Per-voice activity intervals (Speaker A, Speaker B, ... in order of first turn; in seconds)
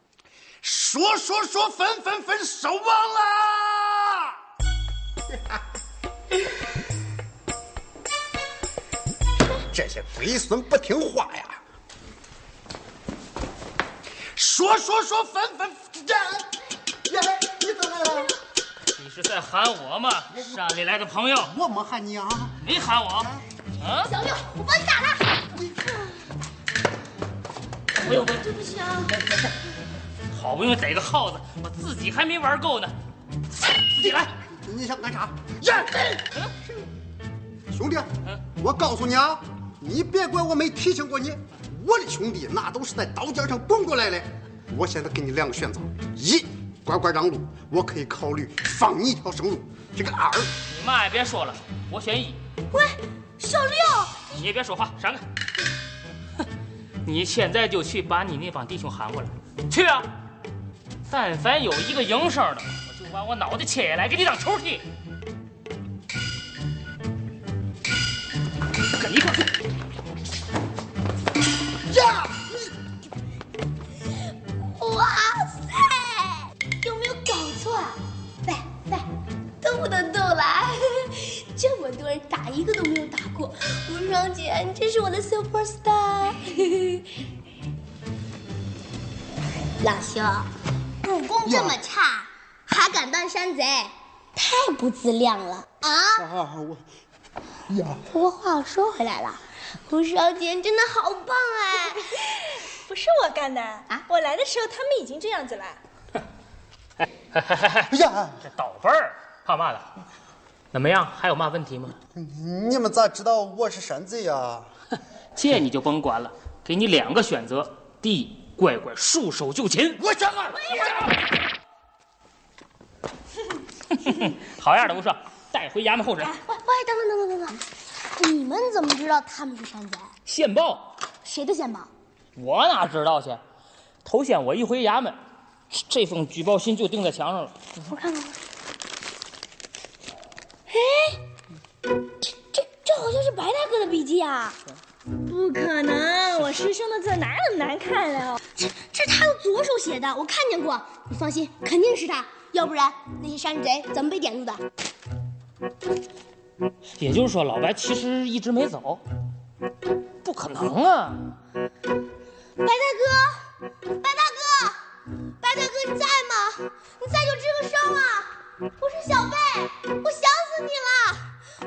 Speaker A: 0.6-4.3, 9.7-11.6, 14.3-16.5, 17.1-18.4, 21.4-22.6, 34.5-35.9, 37.7-50.5, 71.9-72.3, 91.5-91.8, 96.2-96.8, 97.7-98.0, 107.9-108.4, 112.2-114.7
Speaker B: 19.0-21.5, 22.6-24.1, 30.3-33.0, 33.9-34.3, 50.7-52.4, 54.3-55.2, 57.0-60.1, 61.1-64.8, 69.0-69.5, 107.3-107.9, 108.4-109.9, 110.7-112.0, 115.3-120.0, 123.9-126.4, 130.3-130.9, 132.4-133.4, 134.1-135.2, 135.7-137.6, 157.0-159.0, 160.2-161.3
Speaker C: 24.1-25.4, 28.0-29.2, 52.7-54.3, 74.6-79.1, 79.6-87.1, 89.8-90.5, 91.0-96.3, 98.1-102.1, 120.7-121.0, 126.2-127.6, 128.2-130.1, 131.2-131.9, 137.8-138.4, 140.7-141.2, 142.5-144.6, 148.6-154.6, 162.6-164.8, 165.4-171.3
Speaker D: 102.9-105.8, 145.3-148.4